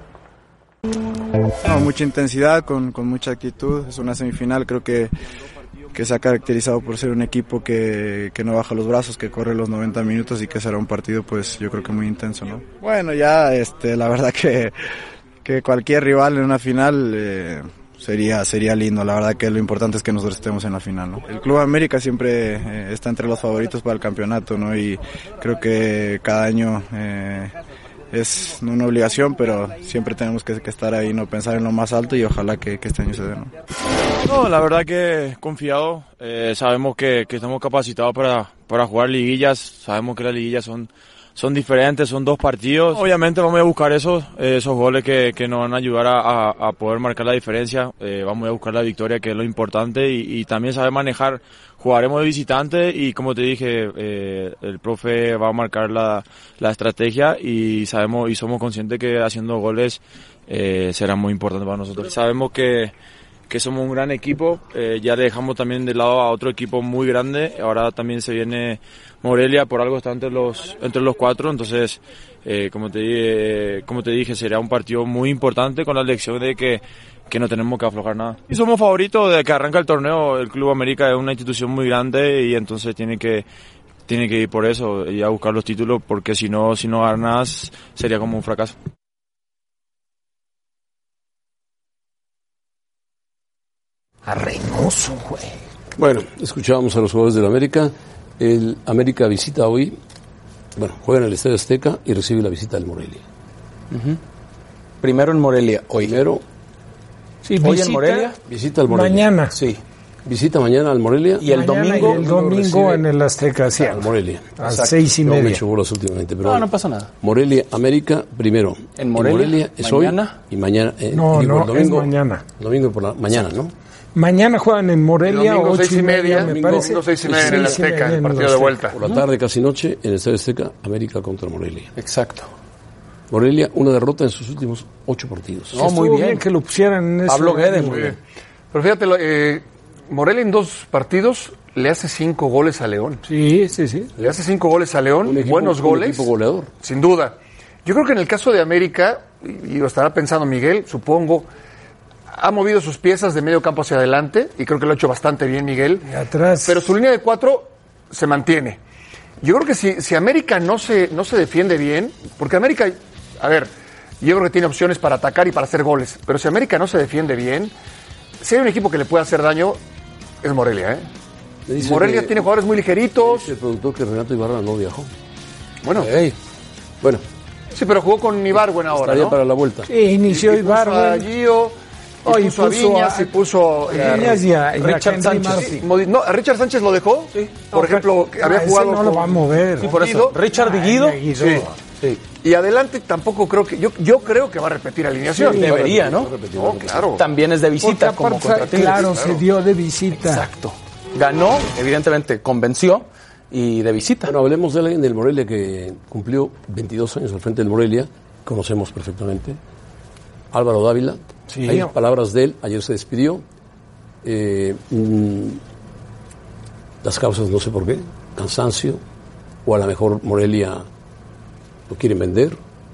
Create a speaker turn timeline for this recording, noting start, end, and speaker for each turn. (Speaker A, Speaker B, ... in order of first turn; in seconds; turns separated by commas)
Speaker A: 1.6-5.1, Speaker A: 5.9-14.8, Speaker A: 15.4-27.5, Speaker A: 28.1-33.5, Speaker B: 34.2-62.9, Speaker B: 63.5-83.5, Speaker B: 84.1-88.8, Speaker C: 94.2-95.6, Speaker D: 96.0-100.0, Speaker D: 100.8-103.2, Speaker E: 103.9-104.2, Speaker E: 105.0-106.1, Speaker D: 106.0-106.4, Speaker C: 107.4-108.3, Speaker E: 107.6-108.3, Speaker D: 108.4-109.3, Speaker C: 108.9-109.6, Speaker E: 109.5-109.8, Speaker D: 110.2-112.7, Speaker E: 111.4-113.0, Speaker C: 111.5-114.1, Speaker D: 113.8-114.6, Speaker C: 114.6-115.6, Speaker E: 114.6-115.0, Speaker D: 115.2-116.7, Speaker E: 116.4-117.1, Speaker D: 117.2-123.7, Speaker E: 119.0-120.3, Speaker C: 121.1-122.4, Speaker C: 124.1-128.8, Speaker F: 125.2-129.0, Speaker D: 126.4-127.8, Speaker D: 128.9-131.9, Speaker E: 131.9-132.5, Speaker D: 133.3-135.9, Speaker E: 135.7-136.4, Speaker C: 135.8-138.1, Speaker E: 137.3-138.1, Speaker F: 137.8-138.1, Speaker F: 138.7-143.2, Speaker C: 143.2-144.1, Speaker F: 144.2-146.3, Speaker D: 145.2-146.7, Speaker F: 146.8-151.5, Speaker F: 152.3-156.0, Speaker C: 156.0-156.9, Speaker F: 156.6-158.8, Speaker F: 159.4-167.7, Speaker F: 168.4-169.8, Speaker F: 170.4-171.0, Speaker D: 171.7-172.5, Speaker F: 171.8-173.5, Speaker D: 173.2-175.1, Speaker F: 175.8-176.1, Speaker E: 176.0-176.3, Speaker F: 177.7-179.4, Speaker D: 178.9-179.9, Speaker C: 179.9-181.3, Speaker F: 180.2-184.4, Speaker C: 182.2-183.3, Speaker C: 183.9-185.8, Speaker E: 183.9-185.8, Speaker F: 185.6-190.4, Speaker E: 187.3-187.6, Speaker C: 187.7-191.8, Speaker E: 189.8-191.3, Speaker F: 191.3-191.7, Speaker E: 191.9-192.2, Speaker F: 192.3-195.8, Speaker C: 195.2-195.7, Speaker E: 195.5-196.4, Speaker D: 195.6-197.2, Speaker F: 196.4-197.2, Speaker E: 197.2-199.1, Speaker C: 197.8-200.5, Speaker F: 198.7-199.4, Speaker E: 200.1-204.3, Speaker D: 204.2-209.6, Speaker D: 210.5-213.4, Speaker C: 211.5-211.9, Speaker D: 214.2-215.6, Speaker D: 217.0-219.0, Speaker D: 219.6-220.8, Speaker D: 221.9-222.6